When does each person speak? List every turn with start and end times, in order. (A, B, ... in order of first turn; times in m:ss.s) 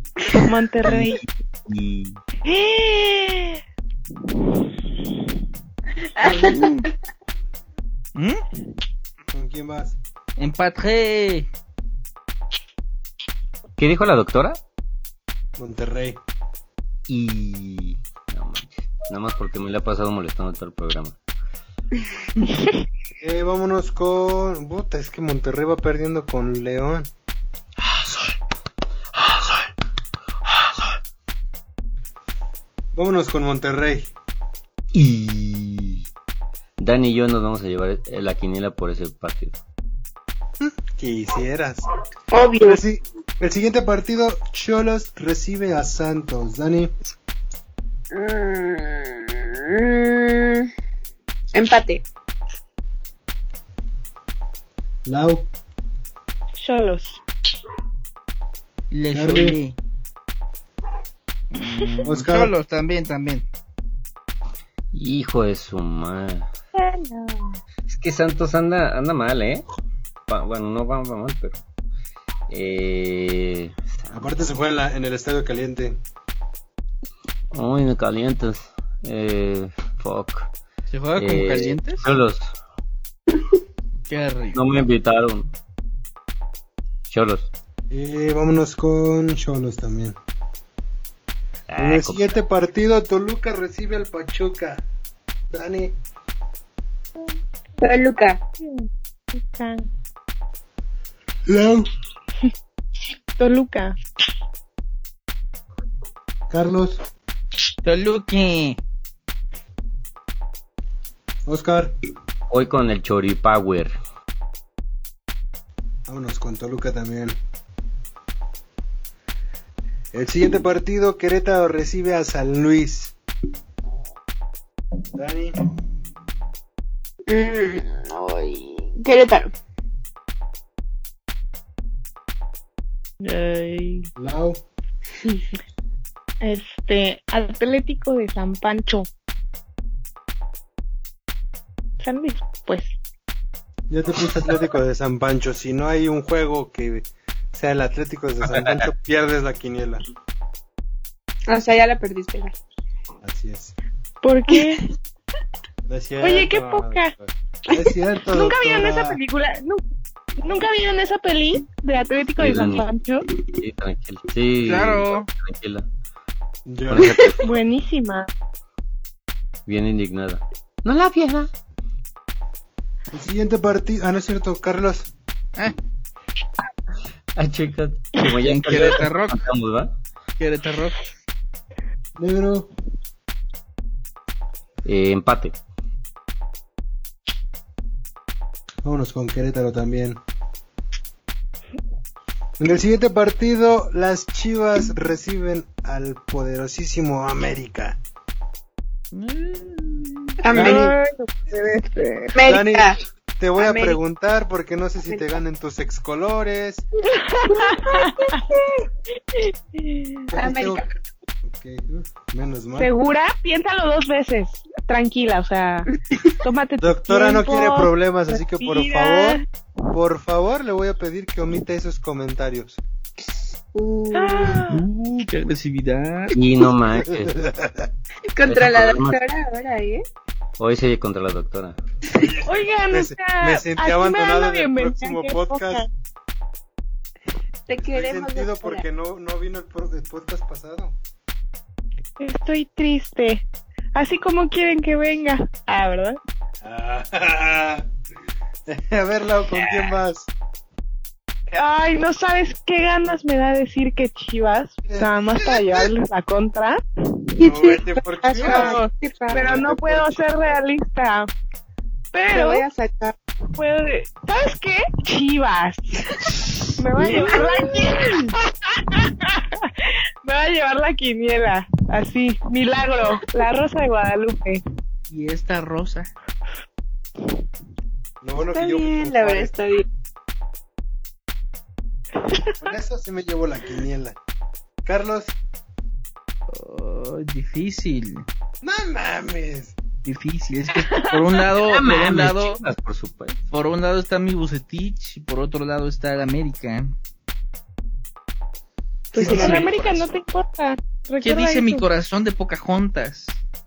0:00.4-0:01.2 A
0:00.8-0:02.2 B
0:02.4-0:03.6 A
0:06.0-0:06.9 C
0:06.4-0:06.9 D
0:08.2-0:08.4 D
0:09.3-0:10.0 E
0:10.4-0:11.5 D
0:13.8-0:14.6 B
0:15.6-0:16.2 E
0:17.1-0:21.2 B
0:23.2-0:27.1 E
0:32.9-0:34.1 E
0:34.9-0:36.0 B
0:36.8-0:39.6 B
0:40.6-0:41.8 E
0:42.3-0:42.8 C
0:42.6-0:46.9 E
0:48.1-0:50.7 C
0:51.5-0:52.0 C
0:55.0-0:55.5 E
0:56.6-0:57.2 A
0:58.9-0:59.8 D
0:59.1-0:59.6 E
1:01.5-1:03.4 D
1:01.6-1:01.9 A
1:02.0-1:02.5 E
1:04.9-1:06.5 B
1:06.8-1:07.6 A
1:07.9-1:09.6 B
1:10.3-1:11.6 B
1:12.5-1:14.2 B
1:14.1-1:16.0 E
1:17.5-1:20.5 B
1:20.9-1:22.1 D
1:21.2-1:22.5 B
1:24.1-1:24.6 D
1:24.5-1:25.5 B
1:27.1-1:27.5 B
1:27.9-1:30.2 E
1:31.7-1:32.3 B
1:31.8-1:34.8 E
1:35.5-1:35.9 E
1:37.8-1:38.4 C
1:38.6-1:39.8 A
1:41.5-1:41.9 E
1:43.4-1:43.9 A
1:46.5-1:47.0 E
1:47.8-1:48.8 D
1:51.4-1:51.9 E
1:52.5-1:53.9 B
1:56.1-1:57.4 E
2:00.1-2:03.1 E
2:05.1-2:05.6 E
2:07.3-2:09.5 C
2:13.2-2:14.1 A
2:14.2-2:14.6 E
2:16.4-2:19.1 A
2:22.0-2:22.9 A
2:23.9-2:30.0 E
2:28.5-2:28.9 B
2:31.5-2:32.6 C
2:33.2-2:33.7 E
2:34.2-2:34.8 A
2:34.5-2:34.8 C
2:35.9-2:39.2 E
2:36.2-2:37.1 A
2:38.3-2:39.8 A
2:40.4-2:43.2 A
2:42.4-2:42.8 B
2:43.5-2:45.9 B
2:44.6-2:45.3 D
2:46.6-2:47.1 E
2:46.9-2:47.5 B
2:47.0-2:47.3 C
2:47.4-2:48.3 A
2:49.6-2:51.5 B
2:53.1-2:55.1 E
2:57.4-2:59.9 B
2:58.4-2:59.4 D
3:00.4-3:01.0 D
3:02.2-3:02.7 E
3:04.8-3:05.6 B
3:08.8-3:10.2 E
3:12.6-3:18.0 E
3:19.1-3:20.4 D
3:20.4-3:20.9 C
3:20.5-3:20.9 E
3:20.5-3:22.4 A
3:22.3-3:23.0 C
3:22.4-3:26.8 E
3:23.6-3:23.9 C
3:27.2-3:28.8 C
3:27.3-3:28.4 A
3:29.3-3:30.3 A
3:30.3-3:30.8 E
3:30.3-3:30.8 C
3:31.4-3:32.9 E
3:32.8-3:35.9 A
3:36.4-3:39.4 A
3:36.8-3:39.4 E
3:39.9-3:42.8 E
3:43.2-3:44.6 C
3:44.1-3:44.8 A
3:44.6-3:46.4 D
3:46.3-3:47.4 B
3:47.1-3:47.9 E
3:48.3-3:50.0 C
3:48.4-3:49.2 B
3:50.6-3:51.8 B
3:52.1-3:55.8 E
3:52.4-3:55.9 A
3:57.7-3:58.8 C
3:57.8-4:00.9 E
4:02.2-4:06.2 A
4:06.6-4:07.9 E
4:08.7-4:10.3 E
4:09.6-4:09.8 B
4:11.5-4:16.8 A
4:14.9-4:15.9 E
4:17.4-4:19.6 C
4:17.4-4:20.2 E
4:18.4-4:21.3 A
4:22.1-4:22.6 A
4:22.3-4:23.2 C
4:23.6-4:29.7 A
4:27.0-4:28.2 C
4:30.2-4:34.6 A
4:35.1-4:36.1 D
4:38.2-4:39.5 E
4:38.5-4:39.8 C
4:42.2-4:42.6 A
4:42.6-4:44.2 E
4:44.8-4:45.3 E
4:46.5-4:48.2 D
4:48.6-4:49.8 E
4:50.0-4:52.6 D
4:50.7-4:51.4 A
4:51.5-4:53.4 B
4:53.5-4:56.9 D
4:59.1-5:01.8 A
4:59.1-5:00.0 E
4:59.2-4:59.5 C
4:59.2-4:59.6 D
5:01.2-5:03.4 D